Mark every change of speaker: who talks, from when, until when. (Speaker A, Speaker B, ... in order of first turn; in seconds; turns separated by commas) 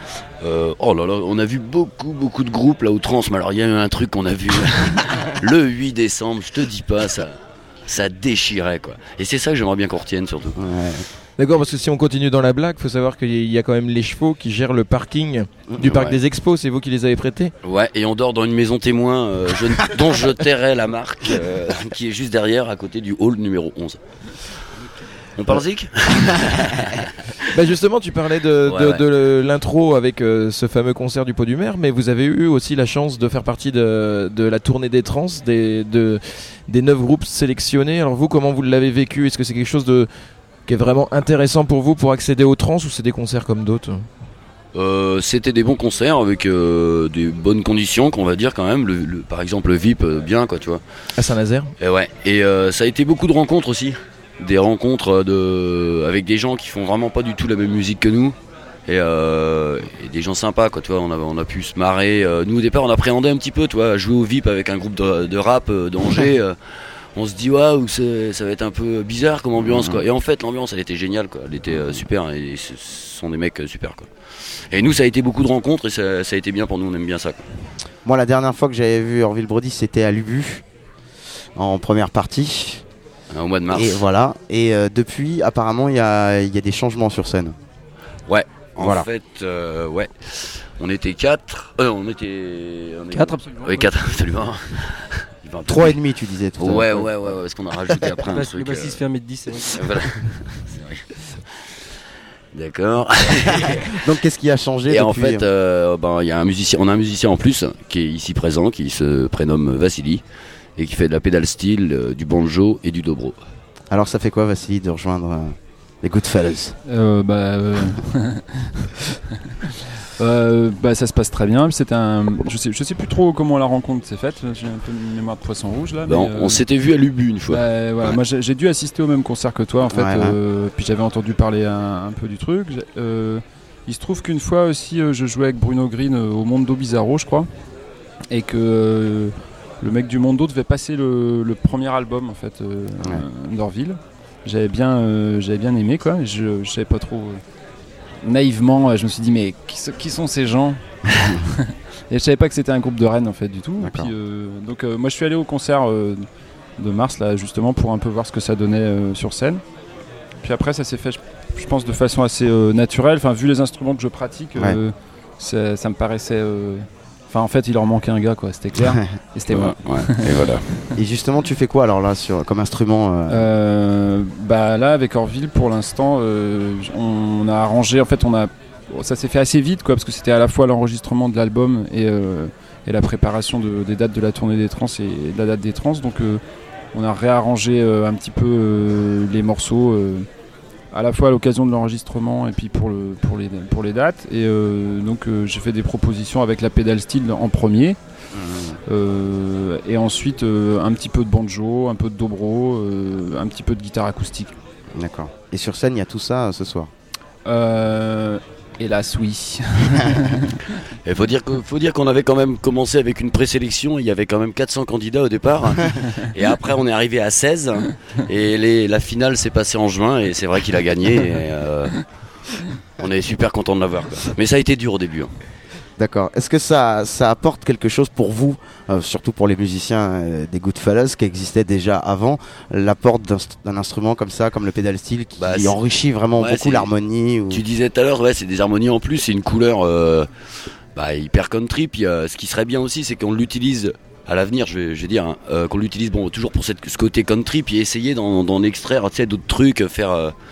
Speaker A: 0.4-10.6, Speaker B: 10.6-11.1, Speaker C: 11.4-17.5, Speaker B: 15.7-16.2, Speaker A: 17.6-24.0, Speaker A: 25.4-26.7, Speaker C: 27.5-40.1, Speaker A: 28.6-29.0, Speaker C: 40.7-44.1, Speaker A: 44.7-50.8, Speaker C: 51.2-51.7, Speaker A: 51.8-66.6, Speaker A: 67.2-74.1, Speaker B: 69.6-70.0, Speaker B: 71.7-72.0, Speaker A: 74.7-77.5, Speaker B: 78.0-80.6, Speaker B: 81.6-82.8, Speaker A: 83.3-84.0, Speaker B: 83.7-87.6, Speaker A: 88.3-96.0, Speaker B: 88.8-89.1, Speaker B: 95.7-97.3, Speaker A: 96.6-101.0, Speaker A: 102.5-104.1, Speaker B: 104.0-105.5, Speaker A: 104.9-110.2, Speaker A: 110.8-113.4, Speaker B: 113.9-116.8, Speaker D: 116.9-118.4, Speaker D: 120.2-126.6, Speaker A: 126.1-128.1, Speaker D: 127.5-137.5, Speaker B: 129.9-130.4, Speaker D: 138.3-147.4, Speaker D: 148.2-150.8, Speaker D: 152.1-156.2, Speaker B: 153.8-154.1, Speaker D: 156.8-159.6, Speaker D: 160.4-170.4, Speaker B: 168.8-169.1, Speaker A: 169.5-170.6, Speaker B: 170.9-173.4, Speaker D: 173.3-186.4, Speaker D: 186.9-190.3, Speaker D: 190.9-198.0, Speaker B: 198.3-198.8, Speaker D: 198.9-204.5, Speaker B: 204.9-206.9, Speaker D: 207.5-210.6, Speaker A: 211.1-221.9, Speaker A: 223.0-225.3, Speaker B: 226.0-237.6, Speaker A: 235.4-235.8, Speaker A: 236.4-236.9, Speaker A: 237.5-240.3, Speaker A: 240.9-250.3